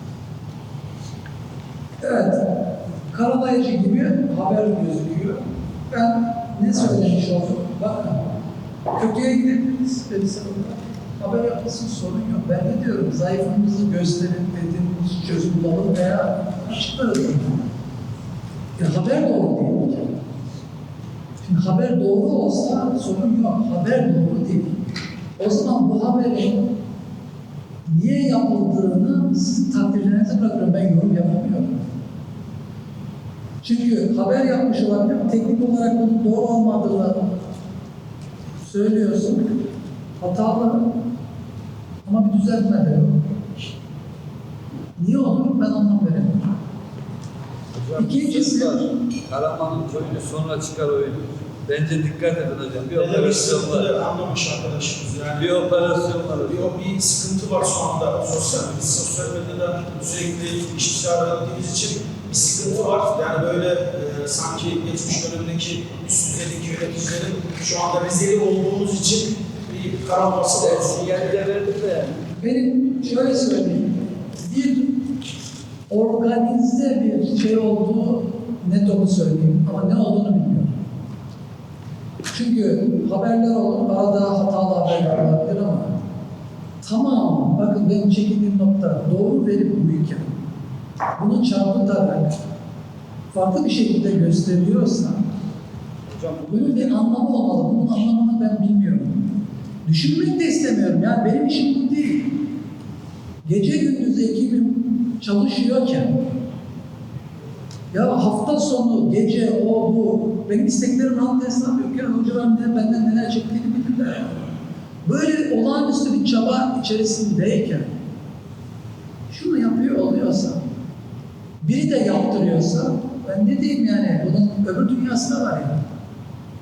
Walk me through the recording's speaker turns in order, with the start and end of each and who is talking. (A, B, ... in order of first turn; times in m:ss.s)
0:02.0-0:02.4 A
0:03.1-0:05.4 A
0:05.9-0:08.2 A
0:09.0-0:17.6 A
0:18.8-0:20.1 A
0:21.4-0:24.8 A
0:25.4-0:26.6 A
0:27.8-0:31.8 A
0:33.6-0:37.2 A
0:38.6-0:39.5 A
0:40.2-0:40.8 A
0:42.0-0:43.2 A
0:45.0-0:46.5 A
0:47.7-0:53.9 B
0:48.0-0:48.8 A
0:52.9-0:55.8 C
0:55.4-0:56.7 B
0:56.4-1:11.3 C
1:10.5-1:12.2 B
1:12.4-1:14.9 A
1:15.9-1:20.7 A
1:22.3-1:25.9 A
1:26.8-1:30.3 A
1:31.2-1:32.4 A
1:33.3-1:35.2 A
1:36.1-1:37.0 B
1:36.5-1:39.2 A
1:39.8-1:42.3 A
1:43.4-1:46.2 A
1:47.9-1:54.4 A
1:55.0-1:57.9 A
1:59.3-2:00.6 A
2:01.6-2:05.8 A